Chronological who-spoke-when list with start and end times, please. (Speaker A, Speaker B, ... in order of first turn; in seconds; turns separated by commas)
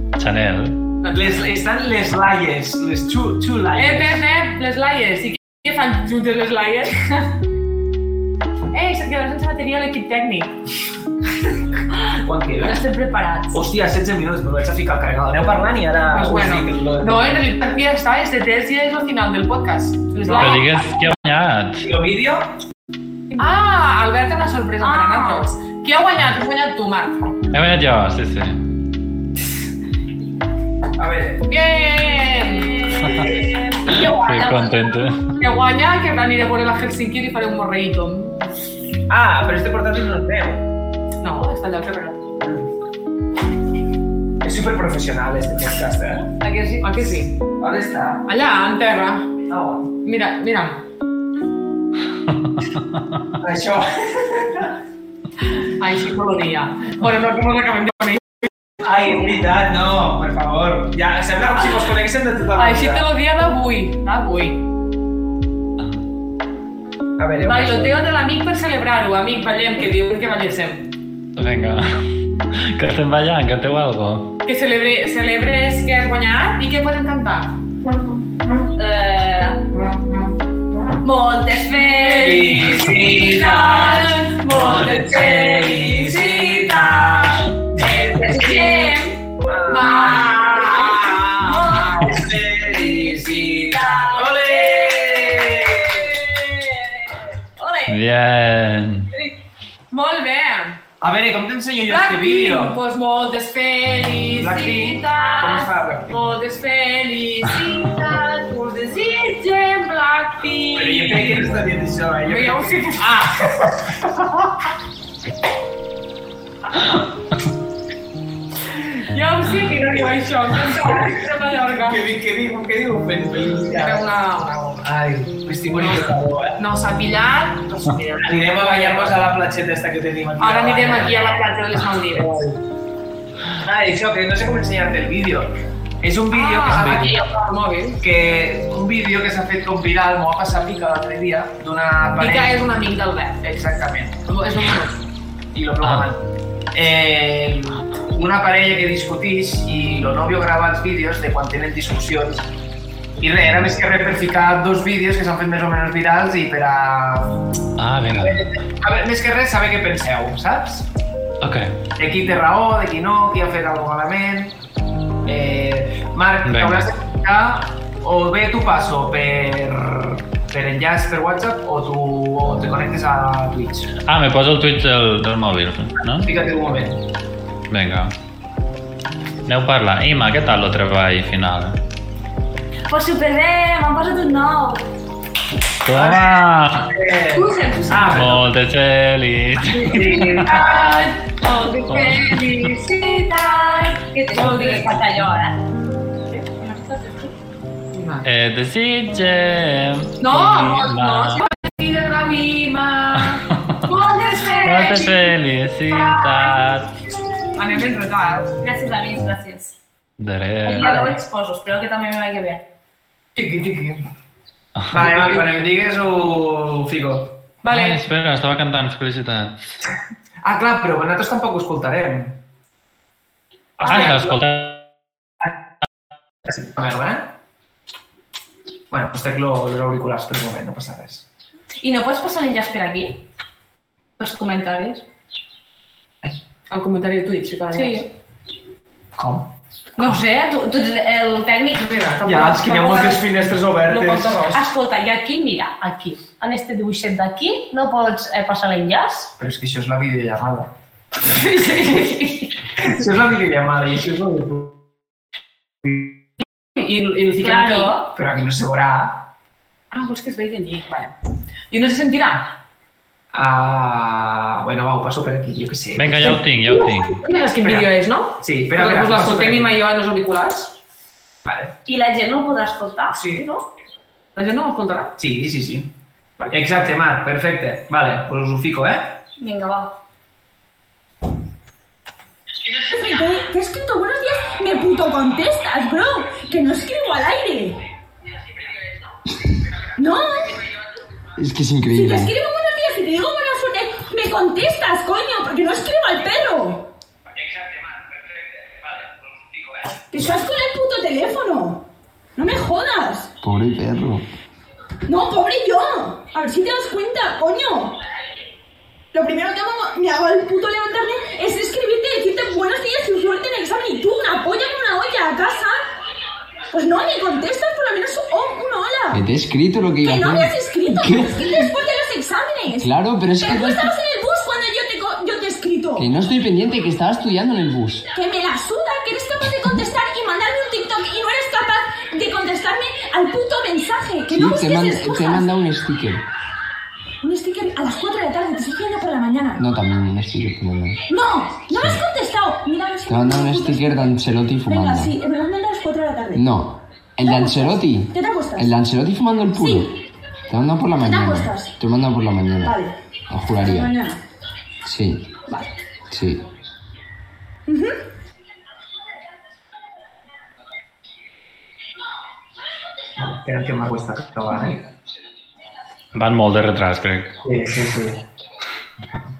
Speaker A: 0.2-0.8, Speaker B: 1.0-1.4, Speaker C: 1.1-4.2, Speaker B: 3.8-7.3, Speaker B: 8.7-10.5, Speaker C: 12.1-12.8, Speaker D: 12.6-13.6, Speaker C: 13.5-17.5, Speaker B: 16.1-20.7, Speaker D: 20.2-20.5, Speaker A: 20.3-21.9, Speaker C: 21.8-22.5, Speaker B: 23.4-27.1, Speaker D: 24.8-25.5, Speaker A: 27.5-28.6, Speaker C: 31.0-31.5, Speaker B: 31.5-33.1, Speaker D: 32.4-35.1, Speaker C: 33.1-33.4, Speaker A: 33.9-35.3, Speaker B: 35.4-38.5, Speaker C: 39.1-40.6, Speaker B: 41.2-42.2, Speaker C: 42.4-42.7, Speaker C: 44.4-46.3, Speaker D: 46.4-47.1, Speaker B: 46.8-47.4, Speaker C: 47.6-48.2, Speaker B: 48.3-49.3, Speaker C: 49.5-49.9, Speaker B: 50.0-50.8, Speaker C: 53.4-54.8, Speaker B: 55.6-58.3, Speaker C: 58.8-63.1, Speaker B: 62.5-64.6, Speaker C: 67.2-68.0, Speaker B: 67.4-70.9, Speaker A: 71.4-71.9, Speaker A: 72.5-74.3, Speaker B: 74.5-77.5, Speaker D: 78.8-79.7, Speaker D: 81.0-98.0, Speaker B: 81.9-84.4, Speaker C: 82.2-88.7, Speaker B: 88.2-89.0, Speaker C: 89.4-96.1, Speaker B: 89.7-92.0, Speaker A: 97.9-99.1, Speaker B: 99.9-100.8, Speaker C: 101.0-102.8, Speaker B: 101.9-111.5, Speaker C: 104.3-106.1, Speaker C: 110.8-114.5, Speaker B: 112.3-113.7, Speaker B: 118.8-122.0, Speaker C: 120.7-121.3, Speaker C: 121.8-126.6, Speaker B: 123.7-124.5, Speaker B: 125.7-129.2, Speaker C: 128.2-131.4, Speaker B: 130.4-132.4, Speaker C: 132.1-132.6, Speaker C: 133.6-137.2, Speaker B: 136.3-138.0, Speaker A: 136.7-137.0, Speaker C: 138.0-142.6, Speaker B: 142.2-143.5, Speaker C: 143.4-144.2, Speaker B: 144.2-145.0, Speaker C: 145.5-152.5, Speaker C: 153.2-157.4, Speaker A: 157.8-158.4, Speaker C: 158.1-160.9, Speaker A: 161.4-161.7, Speaker C: 162.0-164.6, Speaker C: 165.2-173.9, Speaker A: 166.5-166.9, Speaker A: 174.1-176.3, Speaker C: 176.1-177.0, Speaker A: 177.7-178.1, Speaker A: 179.5-181.8, Speaker D: 182.9-184.9, Speaker A: 185.8-186.9, Speaker C: 185.9-188.5, Speaker D: 187.3-188.2, Speaker A: 188.1-190.4, Speaker D: 189.8-195.6, Speaker C: 189.8-191.1, Speaker B: 191.6-192.8, Speaker A: 191.9-192.2, Speaker B: 194.3-194.9, Speaker D: 196.3-197.3, Speaker B: 197.9-198.3, Speaker A: 198.2-201.4, Speaker B: 200.2-205.3, Speaker A: 204.6-206.9, Speaker D: 206.2-206.6, Speaker B: 207.6-208.5, Speaker D: 208.6-209.8, Speaker A: 210.2-211.2, Speaker D: 210.6-212.6, Speaker C: 210.8-211.2, Speaker C: 213.4-214.0, Speaker A: 214.8-215.2, Speaker C: 214.9-217.4, Speaker B: 217.6-218.0, Speaker A: 217.7-219.7, Speaker C: 220.4-222.4, Speaker A: 223.8-224.8, Speaker C: 223.8-224.3, Speaker B: 223.8-224.3, Speaker C: 226.4-227.3, Speaker C: 228.9-231.3, Speaker D: 231.8-233.2, Speaker D: 234.2-235.0, Speaker B: 236.7-238.1, Speaker D: 237.7-238.1, Speaker C: 239.2-239.5, Speaker D: 240.0-243.2, Speaker C: 242.2-244.4, Speaker B: 242.8-243.1, Speaker B: 243.9-244.6, Speaker D: 244.5-249.3, Speaker C: 249.4-250.7, Speaker D: 251.8-252.2, Speaker C: 252.8-254.8, Speaker C: 255.8-256.1, Speaker B: 256.8-258.0, Speaker D: 257.4-258.1, Speaker C: 258.1-259.3, Speaker B: 259.9-261.1, Speaker B: 261.7-262.5, Speaker C: 263.3-266.4, Speaker A: 265.9-267.2, Speaker B: 267.1-270.8, Speaker C: 267.6-267.9, Speaker C: 268.4-269.8, Speaker C: 271.4-271.7, Speaker D: 271.9-273.6, Speaker B: 273.1-273.5, Speaker B: 274.4-275.1, Speaker C: 275.2-279.2, Speaker D: 279.4-279.9, Speaker E: 282.7-287.8, Speaker E: 289.9-290.6, Speaker F: 291.4-292.4, Speaker E: 291.9-296.9, Speaker C: 297.3-299.9, Speaker E: 300.1-303.3, Speaker F: 303.4-304.2, Speaker E: 305.1-308.0, Speaker E: 309.1-315.8, Speaker E: 316.7-319.2, Speaker F: 319.1-321.7, Speaker E: 320.0-326.1, Speaker F: 322.8-323.9, Speaker F: 326.0-328.1, Speaker E: 328.1-335.5, Speaker F: 334.3-336.2, Speaker E: 337.2-339.6, Speaker F: 339.6-341.0, Speaker E: 341.1-344.1, Speaker F: 341.7-342.0, Speaker F: 343.1-345.2, Speaker E: 344.7-346.4, Speaker F: 346.4-349.9, Speaker E: 347.2-348.7, Speaker E: 349.5-349.9, Speaker F: 350.5-352.8, Speaker E: 351.0-351.8, Speaker E: 352.6-352.9, Speaker F: 353.3-353.9, Speaker E: 353.5-354.2, Speaker F: 354.8-355.4, Speaker E: 355.5-355.8, Speaker F: 356.1-356.4, Speaker E: 357.7-358.0, Speaker C: 363.2-364.9, Speaker A: 366.1-367.4, Speaker C: 367.4-368.2